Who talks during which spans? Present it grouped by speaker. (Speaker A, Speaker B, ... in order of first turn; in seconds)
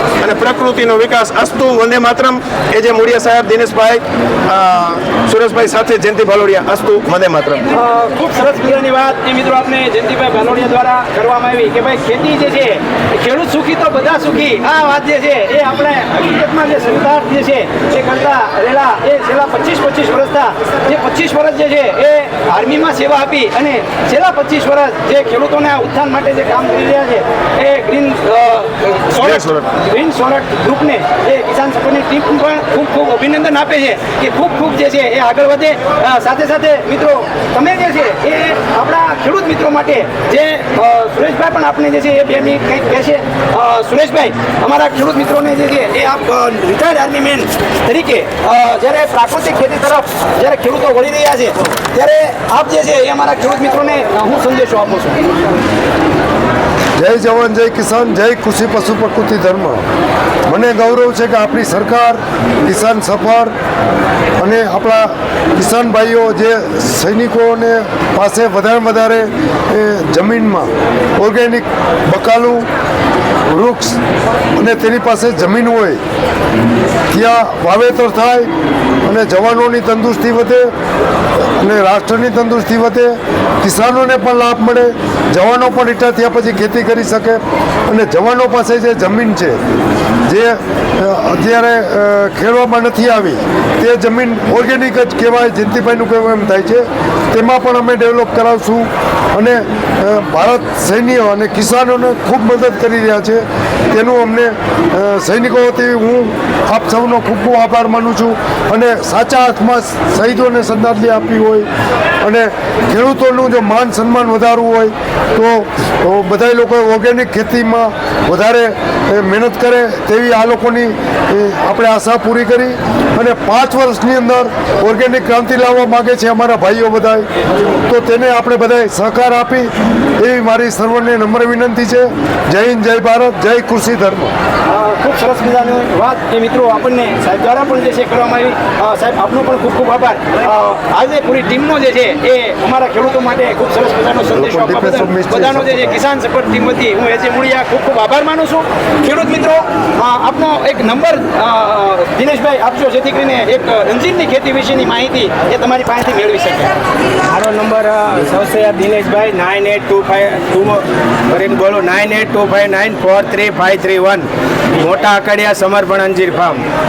Speaker A: 0.2-7.7, 29.1-29.7
Speaker B: 7.7-55.3, 134.7-156.7
Speaker C: 57.0-59.8, 60.5-63.5, 64.4-72.7, 73.5-74.0, 74.6-76.0, 77.1-78.5, 79.1-80.7, 81.6-89.6, 90.3-111.7, 112.2-127.3, 127.9-134.3, 144.3-146.0
Speaker D: 157.3-166.6